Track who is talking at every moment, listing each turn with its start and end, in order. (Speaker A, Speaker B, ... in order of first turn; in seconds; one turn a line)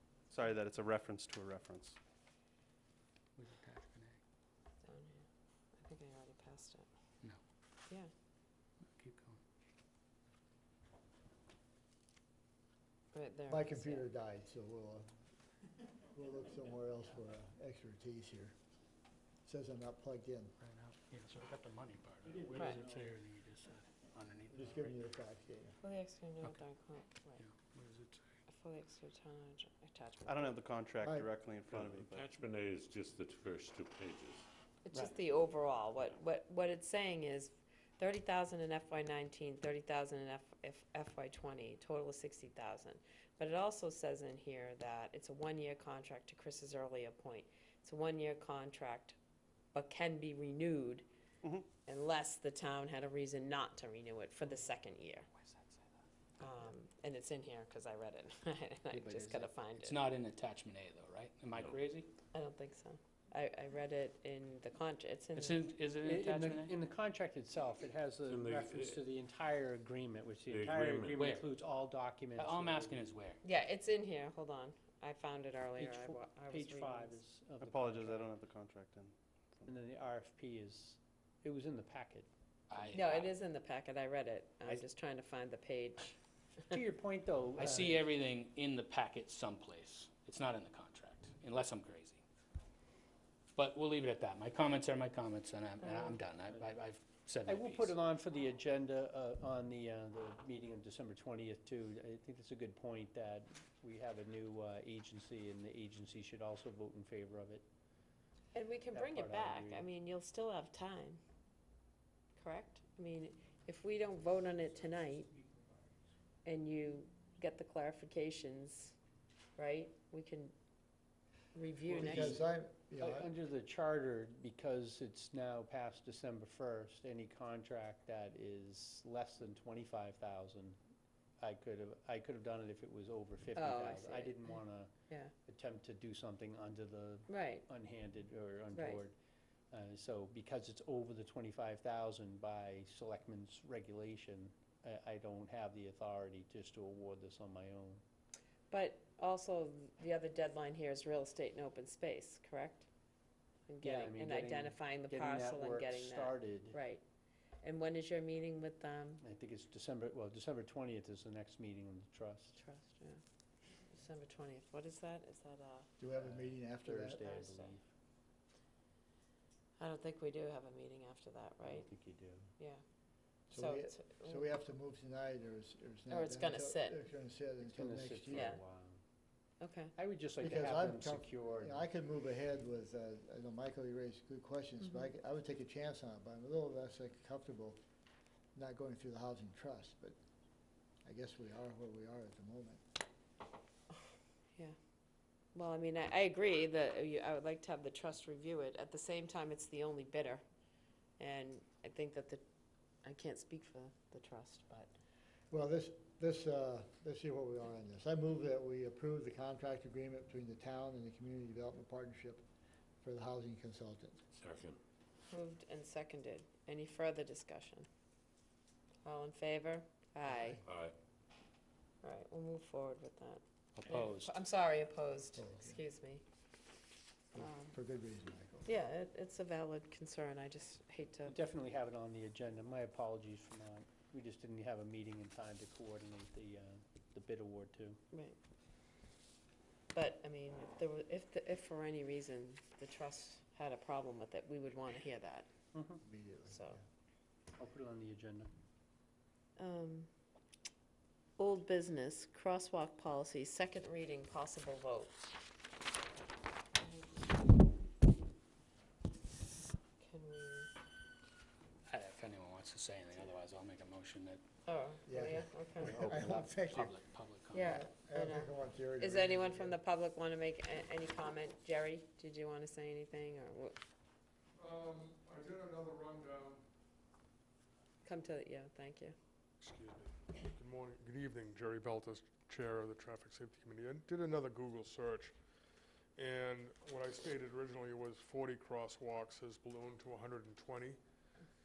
Speaker A: 0.3-2.0
Speaker B: 3.4-4.2
Speaker C: 4.8-6.8
Speaker B: 8.9-9.4
Speaker C: 13.1-14.1
Speaker D: 13.5-15.1
Speaker D: 16.1-18.5
Speaker D: 19.4-20.5
Speaker B: 20.6-25.0
Speaker E: 22.3-23.0
Speaker C: 22.5-22.8
Speaker D: 24.5-25.8
Speaker C: 25.8-27.4
Speaker B: 27.4-28.2
Speaker C: 28.5-30.6
Speaker A: 30.3-32.3
Speaker F: 31.7-34.4
Speaker C: 34.8-49.1
Speaker C: 49.7-51.1
Speaker A: 51.4-51.7
Speaker C: 51.8-55.3
Speaker C: 56.4-60.0
Speaker D: 58.9-59.5
Speaker B: 59.8-62.1
Speaker F: 61.5-61.8
Speaker C: 62.3-65.7
Speaker B: 65.3-66.7
Speaker E: 66.0-73.0
Speaker F: 68.3-69.0
Speaker F: 70.5-71.2
Speaker B: 71.0-71.5
Speaker B: 72.4-73.4
Speaker C: 73.4-77.2
Speaker E: 75.8-78.3
Speaker A: 77.6-79.7
Speaker E: 79.7-82.3
Speaker B: 82.7-83.3
Speaker C: 82.9-86.2
Speaker E: 86.7-88.0
Speaker B: 87.6-92.2
Speaker B: 93.5-97.9
Speaker E: 97.5-107.6
Speaker C: 108.5-111.2
Speaker E: 108.9-109.8
Speaker C: 112.3-115.3
Speaker E: 115.4-115.7
Speaker C: 116.4-118.9
Speaker C: 119.5-120.5
Speaker C: 121.5-122.4
Speaker E: 121.9-122.4
Speaker D: 122.0-123.3
Speaker E: 123.0-130.8
Speaker E: 131.4-134.9
Speaker C: 133.6-134.4
Speaker E: 135.4-139.1
Speaker C: 137.3-137.6
Speaker C: 138.7-139.0
Speaker E: 139.7-148.0
Speaker C: 148.7-152.9
Speaker C: 153.7-157.0
Speaker E: 153.8-156.8
Speaker C: 157.6-159.2
Speaker E: 159.2-162.6
Speaker C: 162.6-163.2
Speaker C: 163.9-165.9
Speaker D: 166.0-167.3
Speaker E: 166.2-167.8
Speaker C: 167.2-167.7
Speaker C: 169.8-171.9
Speaker E: 171.6-172.5
Speaker D: 173.5-178.5
Speaker C: 173.5-174.5
Speaker C: 176.1-177.0
Speaker E: 177.6-179.0
Speaker C: 178.3-178.6
Speaker C: 179.6-179.9
Speaker E: 179.9-181.8
Speaker D: 180.4-187.8
Speaker D: 188.5-190.2
Speaker D: 191.0-192.8
Speaker C: 195.5-200.4
Speaker C: 201.2-202.4
Speaker C: 203.0-204.9
Speaker D: 205.5-212.4
Speaker D: 213.0-214.2
Speaker F: 214.3-214.8
Speaker C: 215.3-217.9
Speaker C: 219.0-220.6
Speaker D: 220.2-220.6
Speaker F: 220.6-220.9
Speaker C: 222.0-226.2
Speaker B: 223.8-224.4
Speaker D: 225.3-225.8
Speaker D: 227.3-228.7
Speaker C: 227.4-227.7
Speaker C: 228.6-231.3
Speaker E: 231.2-238.0
Speaker C: 238.1-238.4
Speaker C: 239.9-245.5
Speaker E: 245.7-246.0
Speaker D: 246.0-246.8
Speaker C: 246.5-246.8
Speaker E: 247.6-248.5
Speaker C: 249.6-250.1
Speaker C: 251.4-255.1
Speaker C: 256.8-257.3
Speaker C: 260.0-260.7
Speaker B: 261.9-264.4
Speaker C: 264.6-266.0
Speaker D: 265.1-266.9
Speaker B: 265.8-267.8
Speaker C: 267.5-273.7
Speaker D: 267.6-269.8
Speaker G: 274.6-276.6
Speaker C: 278.0-279.1
Speaker G: 279.6-285.3
Speaker G: 286.1-291.0